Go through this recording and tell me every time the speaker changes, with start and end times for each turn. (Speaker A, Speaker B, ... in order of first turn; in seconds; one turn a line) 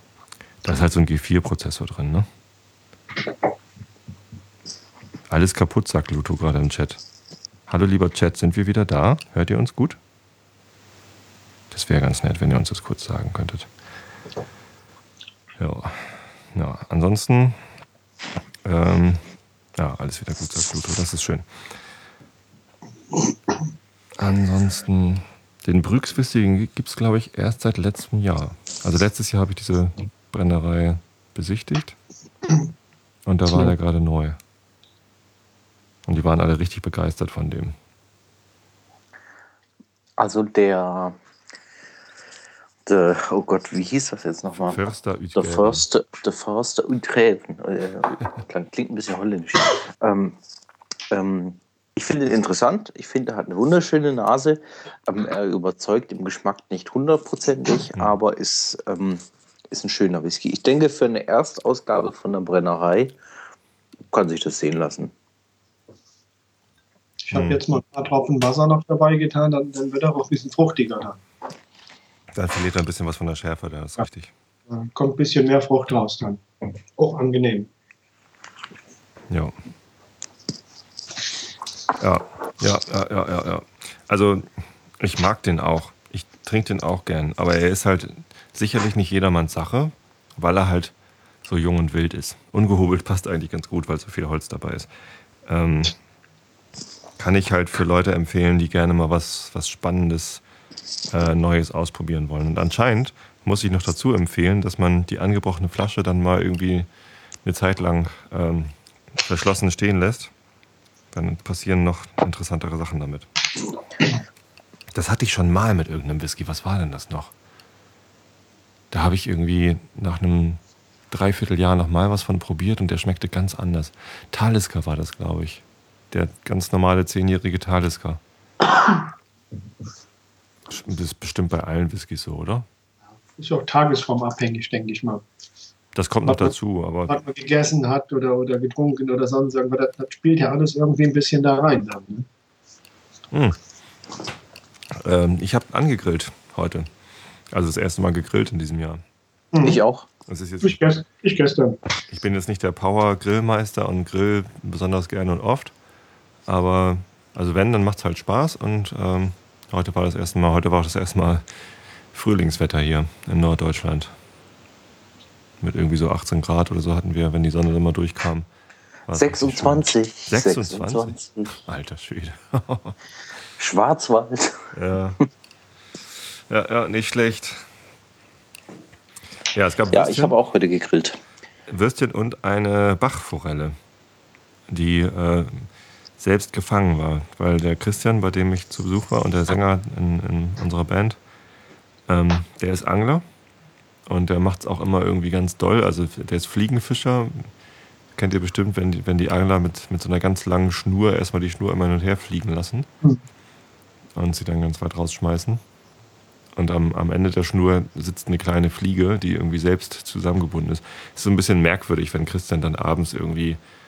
Speaker A: 0.6-2.3
Speaker A: 5.3-7.0
Speaker A: 7.7-10.0
Speaker A: 11.7-13.7
Speaker A: 15.6-17.6
Speaker A: 18.6-21.7
Speaker A: 24.2-32.0
Speaker A: 33.3-34.4
Speaker A: 36.1-37.8
Speaker B: 40.2-41.2
Speaker B: 42.9-44.8
Speaker A: 44.6-45.9
Speaker B: 45.4-50.4
Speaker B: 51.1-63.2
Speaker B: 64.1-65.1
Speaker C: 67.2-71.2
Speaker A: 67.3-67.6
Speaker A: 72.3-74.3
Speaker C: 74.7-76.4
Speaker C: 77.0-77.7
Speaker A: 82.0-94.9
Speaker A: 95.5-96.0
Speaker A: 97.2-100.4
Speaker A: 101.1-106.9
Speaker A: 107.4-110.3
Speaker A: 111.1-113.3
Speaker A: 114.9-117.3
Speaker A: 118.9-128.2
Speaker A: 130.7-132.7
Speaker C: 133.4-135.2
Speaker A: 135.9-137.2
Speaker C: 136.3-136.5
Speaker C: 137.1-142.3
Speaker A: 143.3-143.6
Speaker A: 144.9-146.9
Speaker A: 147.5-149.0
Speaker C: 149.5-149.8
Speaker B: 149.6-150.1
Speaker A: 150.3-150.8
Speaker C: 150.6-151.8
Speaker A: 152.1-155.7
Speaker A: 156.5-161.5
Speaker A: 162.1-164.1
Speaker A: 165.6-168.5
Speaker A: 169.1-173.0
Speaker B: 169.1-171.6
Speaker B: 173.6-174.7
Speaker A: 174.7-175.2
Speaker A: 176.5-177.7
Speaker A: 179.5-180.4
Speaker B: 179.9-181.2
Speaker A: 181.7-183.8
Speaker A: 184.7-191.2
Speaker A: 192.1-193.2
Speaker A: 194.1-197.5
Speaker A: 198.2-202.9
Speaker A: 204.2-205.6
Speaker A: 206.6-213.6